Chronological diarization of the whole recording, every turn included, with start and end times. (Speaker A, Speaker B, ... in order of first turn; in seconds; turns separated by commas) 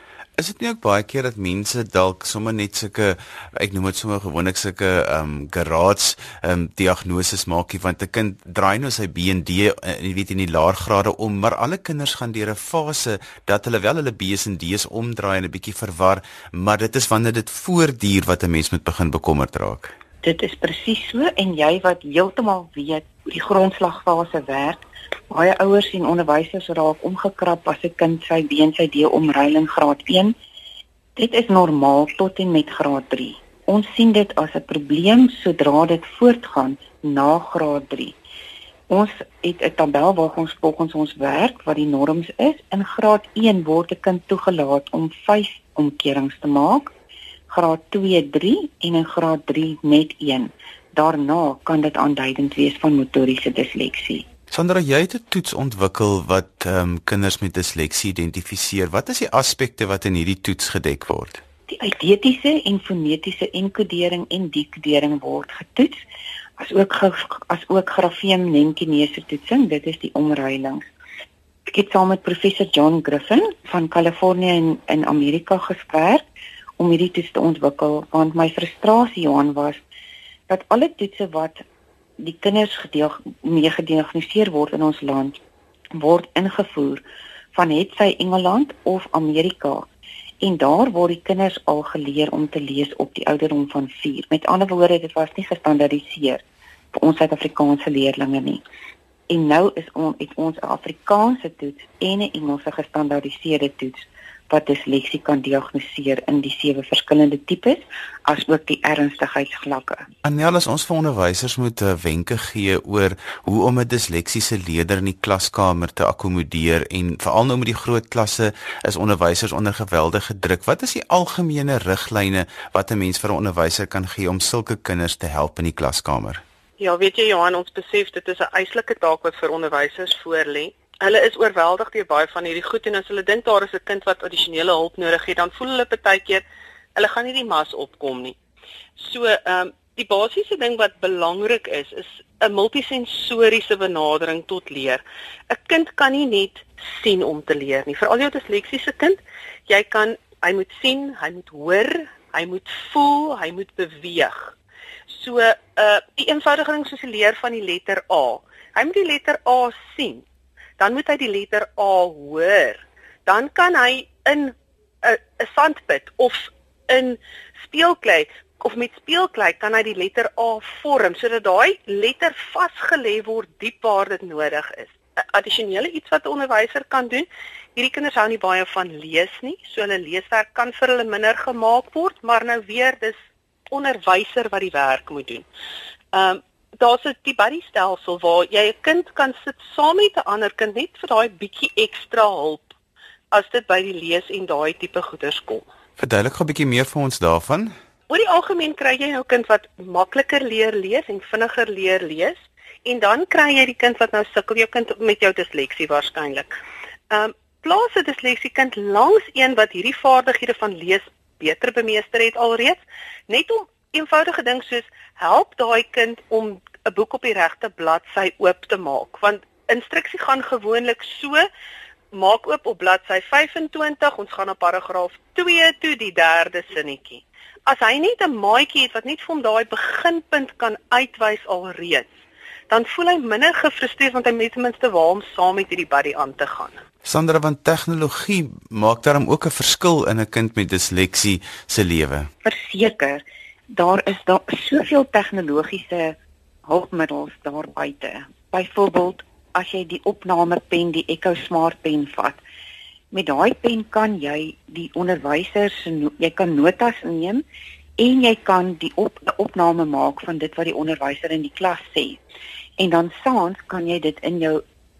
Speaker A: 0.4-19.9, Speaker B: 20.2-30.3, Speaker B: 31.1-38.1, Speaker B: 38.9-46.9, Speaker B: 47.5-54.2, Speaker A: 54.5-61.4, Speaker B: 61.7-65.9, Speaker B: 66.6-70.9, Speaker B: 71.7-76.2, Speaker B: 76.8-79.8, Speaker B: 80.5-81.6, Speaker B: 82.2-85.4, Speaker B: 86.0-89.9, Speaker B: 90.4-96.4, Speaker B: 96.9-98.6, Speaker B: 99.3-110.0, Speaker A: 110.2-126.4, Speaker C: 126.8-136.4, Speaker C: 136.9-138.4, Speaker C: 139.0-154.5, Speaker C: 155.1-160.2, Speaker C: 160.8-183.1, Speaker C: 183.7-185.4, Speaker C: 186.1-192.7, Speaker C: 193.3-195.7, Speaker A: 196.0-197.7, Speaker C: 198.1-206.5, Speaker C: 207.1-221.4, Speaker C: 222.1-232.1, Speaker C: 232.7-236.8, Speaker A: 237.0-242.3, Speaker B: 242.4-252.4, Speaker B: 253.1-257.4, Speaker B: 258.0-262.2, Speaker B: 262.8-264.6